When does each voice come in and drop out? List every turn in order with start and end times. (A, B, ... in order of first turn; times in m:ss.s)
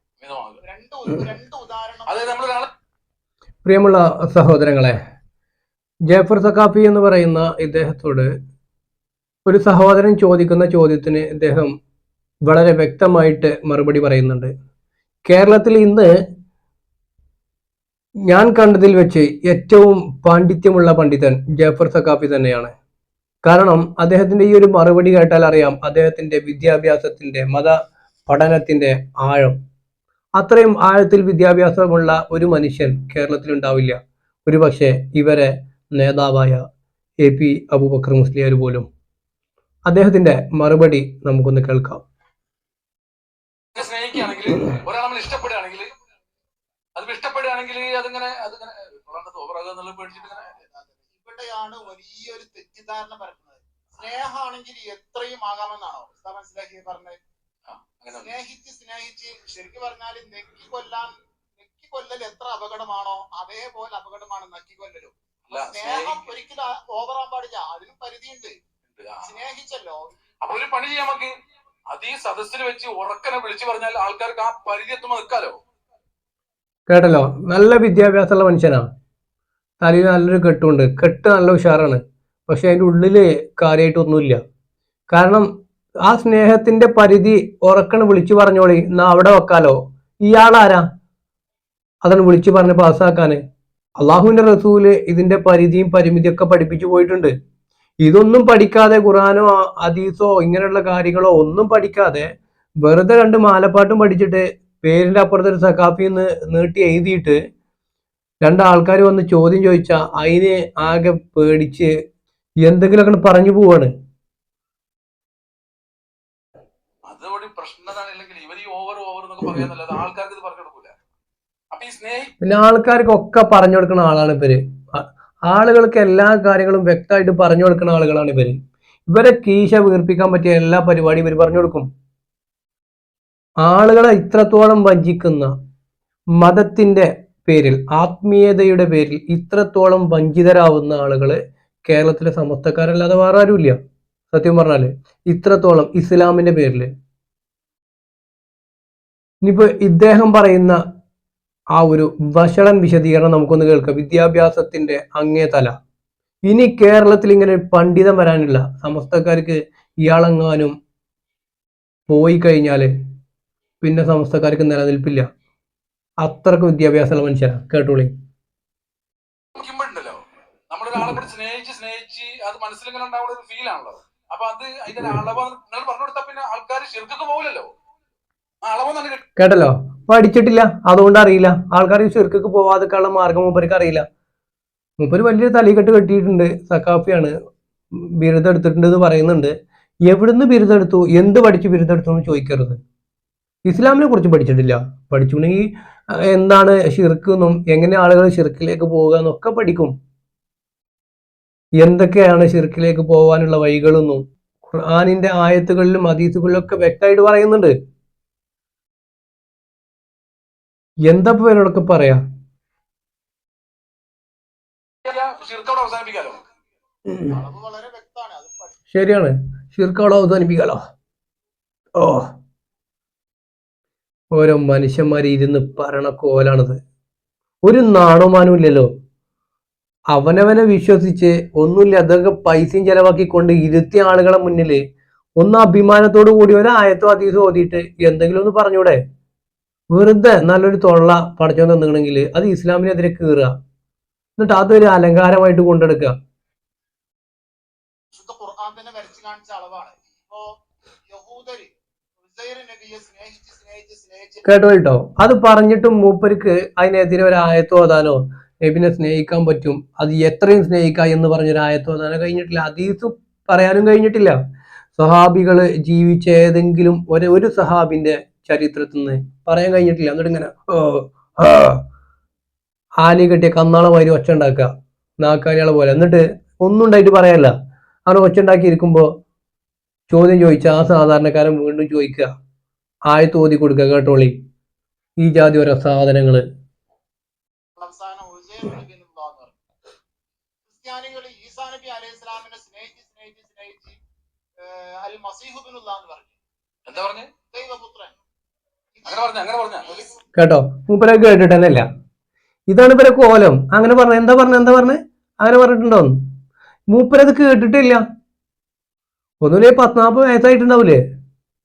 0:00.2-0:00.6 A
0:00.6-0:02.6 B
0:02.1-0:02.7 A
0:03.6-0:05.0 C
0:06.1-0:08.3 C
0:09.5-0:11.7 C
0:12.5-0:14.5 C
0:15.3-0:16.1 C
0:18.3-0:22.7 C
0:23.4-0:27.8 C
0:28.3-0:29.6 C
0:30.4-0:36.6 C
0:37.2-0:38.9 C
0:39.9-0:42.0 C
0:43.7-0:45.9 A
0:47.0-0:50.6 A
0:50.6-0:57.2 B
0:57.7-0:58.3 A
0:58.1-1:08.5 B
1:05.5-1:06.3 A
1:08.9-1:09.3 A
1:09.2-1:10.1 B
1:10.4-1:11.3 A
1:11.9-1:15.6 A
1:16.9-1:18.9 C
1:19.8-1:24.4 C
1:25.1-1:25.5 C
1:26.1-1:30.9 C
1:32.0-1:33.4 C
1:34.0-1:37.3 C
1:38.0-1:42.3 C
1:42.8-1:47.4 C
1:48.4-1:51.9 C
1:52.6-1:53.9 C
1:57.1-2:01.0 A
2:01.7-2:02.3 A
2:02.4-2:11.9 C
2:13.6-2:15.5 C
2:16.4-2:23.8 C
2:24.3-2:26.9 C
2:29.4-2:30.8 C
2:31.8-2:35.7 C
2:36.5-2:40.7 C
2:42.1-2:42.9 C
2:43.8-2:45.2 C
2:46.2-2:48.1 C
2:49.6-2:50.2 A
2:50.7-2:57.7 A
2:58.6-2:59.2 A
2:59.4-3:04.0 C
3:05.0-3:07.3 C
3:07.9-3:09.5 C
3:10.1-3:12.8 C
3:13.7-3:19.9 C
3:21.8-3:27.7 C
3:31.1-3:32.2 C
3:35.0-3:36.4 A
3:37.1-3:37.4 C
3:37.3-3:38.8 B
3:38.9-3:40.8 C
3:42.0-3:42.3 C
3:44.3-3:46.8 C
3:47.6-3:48.9 C
3:50.1-3:54.8 C
3:55.4-3:59.0 C
3:59.9-4:03.5 C
4:04.4-4:06.1 C
4:08.1-4:10.4 B
4:11.1-4:11.7 B
4:12.2-4:14.5 B
4:14.4-4:24.4 C
4:25.0-4:31.8 C
4:33.0-4:37.5 C
4:38.1-4:39.1 C
4:40.1-4:42.3 C
4:43.1-4:44.4 C
4:45.2-4:46.4 C
4:47.8-4:49.6 B
4:50.7-4:54.0 B
4:54.6-4:56.4 B
4:56.9-4:57.3 A
4:57.5-4:58.1 B
4:59.0-5:00.2 B
4:59.0-5:00.0 A
5:00.4-5:01.9 C
5:02.7-5:06.2 C
5:06.9-5:08.0 C
5:09.4-5:11.0 C